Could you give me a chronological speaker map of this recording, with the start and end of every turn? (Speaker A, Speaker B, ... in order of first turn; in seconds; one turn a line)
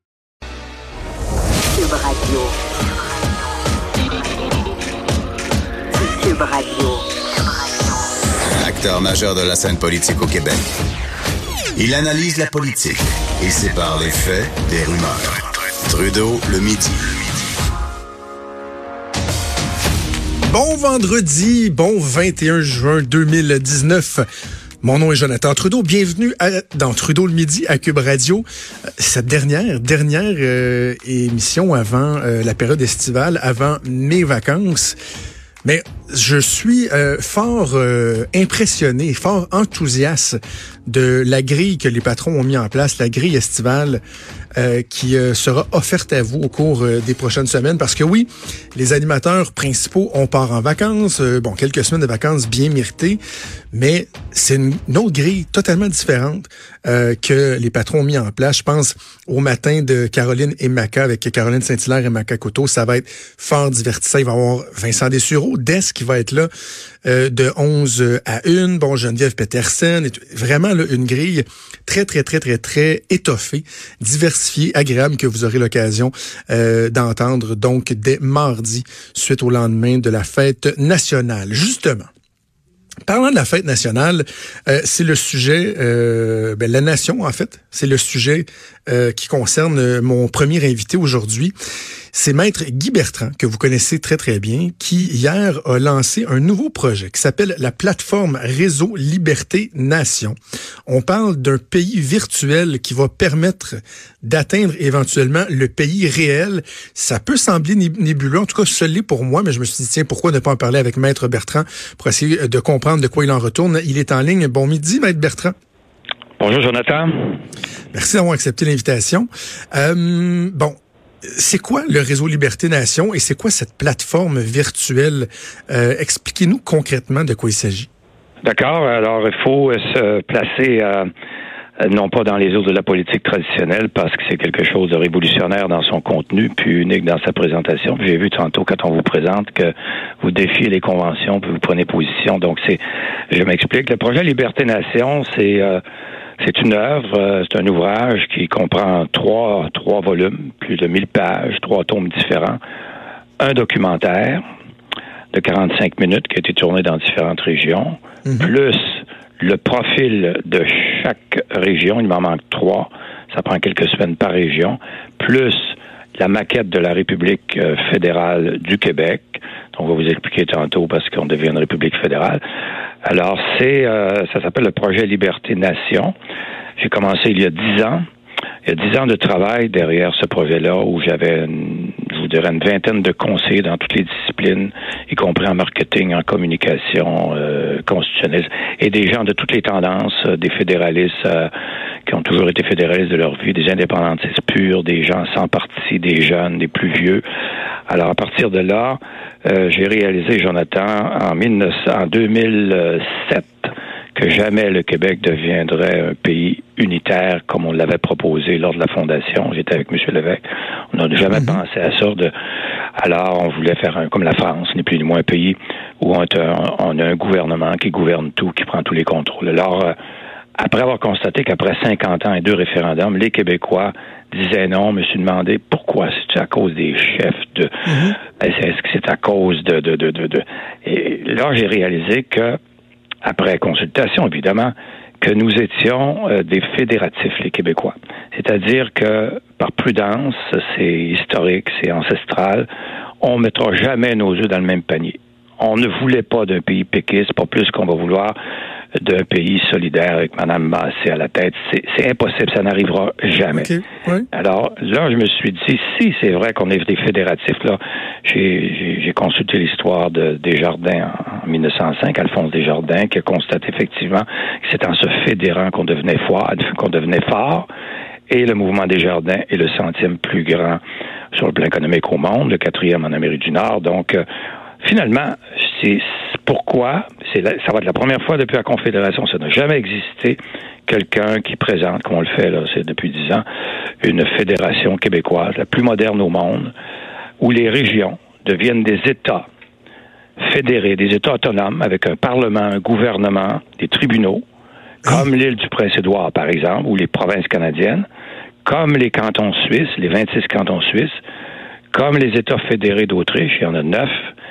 Speaker A: 1.7-2.5
Speaker A: 5.9-7.1
Speaker B: 8.5-10.6
Speaker B: 11.8-17.4
Speaker C: 20.5-24.3
Speaker C: 24.8-28.4
Speaker C: 29.0-35.0
Speaker C: 35.6-44.0
Speaker C: 44.5-53.2
Speaker C: 53.7-66.5
Speaker C: 67.0-82.1
Speaker C: 83.0-91.5
Speaker C: 92.1-115.5
Speaker D: 116.4-117.4
Speaker C: 117.9-127.9
Speaker D: 128.4-131.1
Speaker D: 131.8-145.8
Speaker D: 146.4-152.6
Speaker D: 153.4-154.4
Speaker D: 155.3-172.4
Speaker C: 158.2-158.5
Speaker D: 173.1-176.1
Speaker D: 176.8-178.1
Speaker D: 178.6-191.5
Speaker D: 192.1-197.2
Speaker D: 197.9-210.4
Speaker D: 210.9-212.3
Speaker D: 212.9-219.9
Speaker D: 220.6-227.8
Speaker C: 227.9-228.2
Speaker D: 228.4-232.6
Speaker D: 233.2-242.7
Speaker D: 243.2-248.3
Speaker D: 249.0-253.7
Speaker C: 253.5-254.2
Speaker D: 254.3-267.7
Speaker D: 268.3-270.8
Speaker D: 271.3-274.2
Speaker D: 274.8-283.4
Speaker D: 284.0-286.7
Speaker D: 287.4-289.5
Speaker D: 290.4-294.4
Speaker D: 295.1-298.1
Speaker D: 298.6-301.2
Speaker D: 301.9-304.1